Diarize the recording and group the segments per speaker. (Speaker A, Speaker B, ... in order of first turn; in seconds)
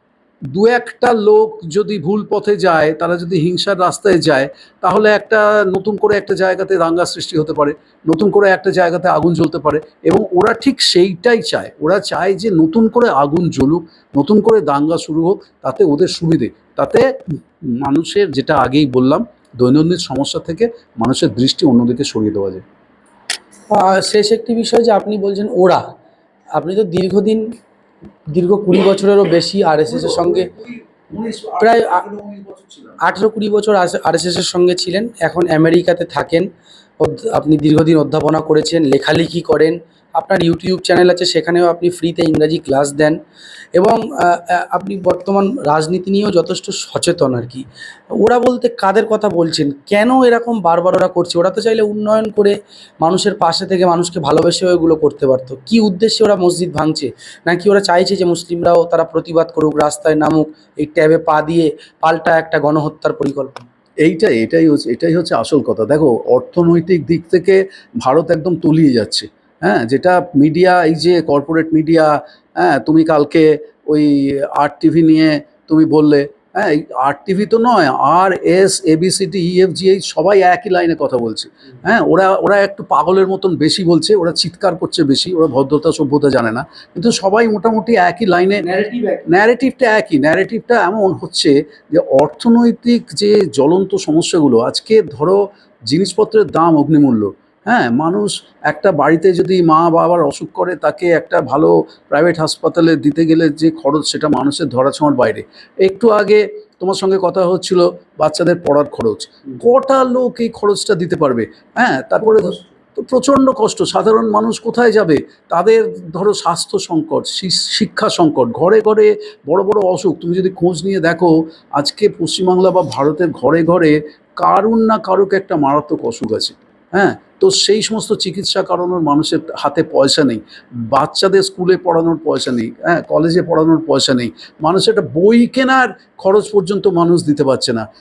Speaker A: 0.5-17.1, 17.8-22.6, 29.9-33.0, 64.0-88.7, 89.3-137.8
Speaker B: 23.7-25.8, 26.5-27.4, 28.3-30.5, 31.6-32.0, 33.0-36.5, 37.0-43.2, 43.8-63.6, 88.7-89.2